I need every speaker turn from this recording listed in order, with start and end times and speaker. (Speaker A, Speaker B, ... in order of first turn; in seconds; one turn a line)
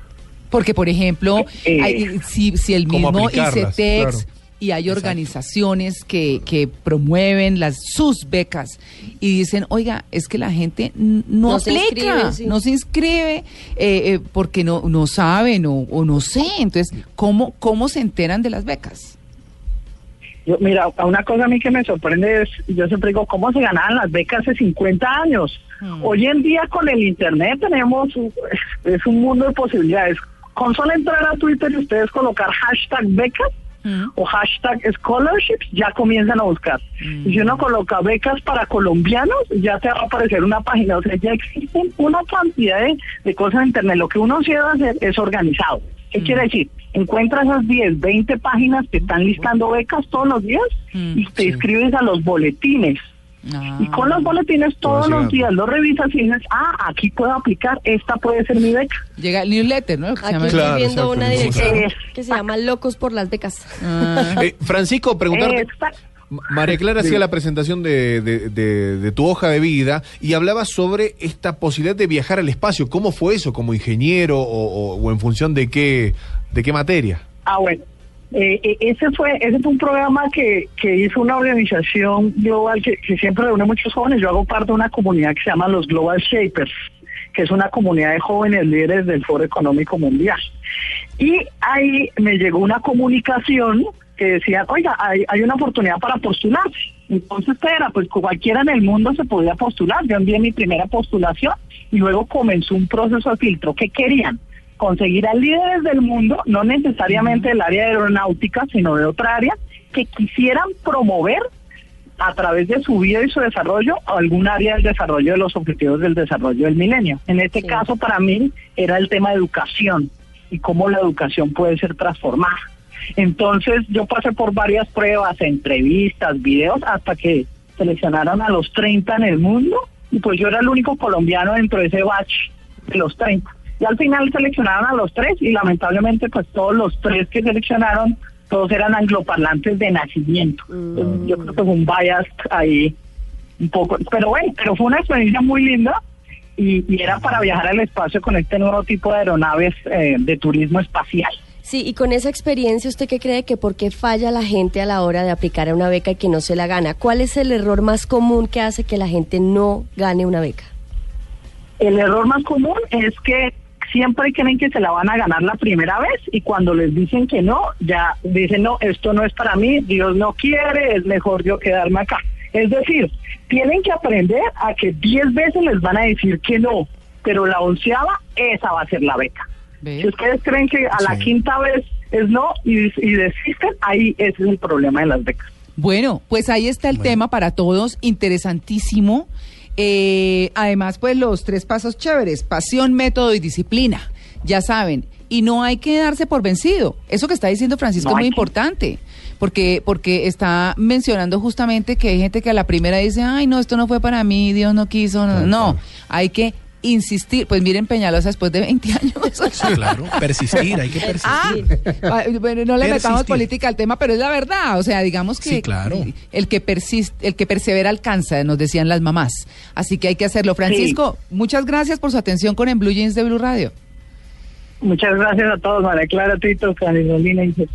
Speaker A: 0.5-19.2
Speaker B: 1.6-1.9
Speaker C: 2.9-4.2
Speaker D: 11.5-12.5
Speaker B: 20.5-33.5
Speaker A: 25.8-26.1
Speaker A: 33.8-34.1
Speaker B: 34.1-50.7
Speaker A: 37.0-37.6
Speaker A: 50.9-51.3
Speaker B: 51.4-53.0
Speaker A: 53.5-54.4
Speaker B: 53.9-58.9
Speaker C: 54.8-55.5
Speaker A: 59.2-60.8
Speaker D: 60.2-64.4
Speaker C: 60.5-61.9
Speaker A: 63.8-64.4
Speaker C: 64.3-65.7
Speaker B: 65.3-65.9
Speaker C: 66.3-77.2
Speaker B: 77.5-77.8
Speaker B: 78.3-86.7
Speaker B: 87.3-90.4
Speaker B: 91.2-111.4
Speaker B: 112.2-122.5
Speaker B: 123.2-142.9
Speaker D: 140.9-141.3
Speaker B: 143.6-145.9
Speaker B: 146.6-151.3
Speaker D: 151.7-160.7
Speaker B: 161.8-179.4
Speaker A: 179.8-180.1
Speaker B: 180.0-185.4
Speaker E: 181.0-181.3
Speaker A: 185.8-209.8
Speaker B: 198.1-198.3
Speaker E: 209.6-211.8
Speaker D: 211.0-211.7
Speaker A: 211.2-223.7
Speaker E: 212.8-213.5
Speaker E: 215.4-216.1
Speaker B: 224.8-227.6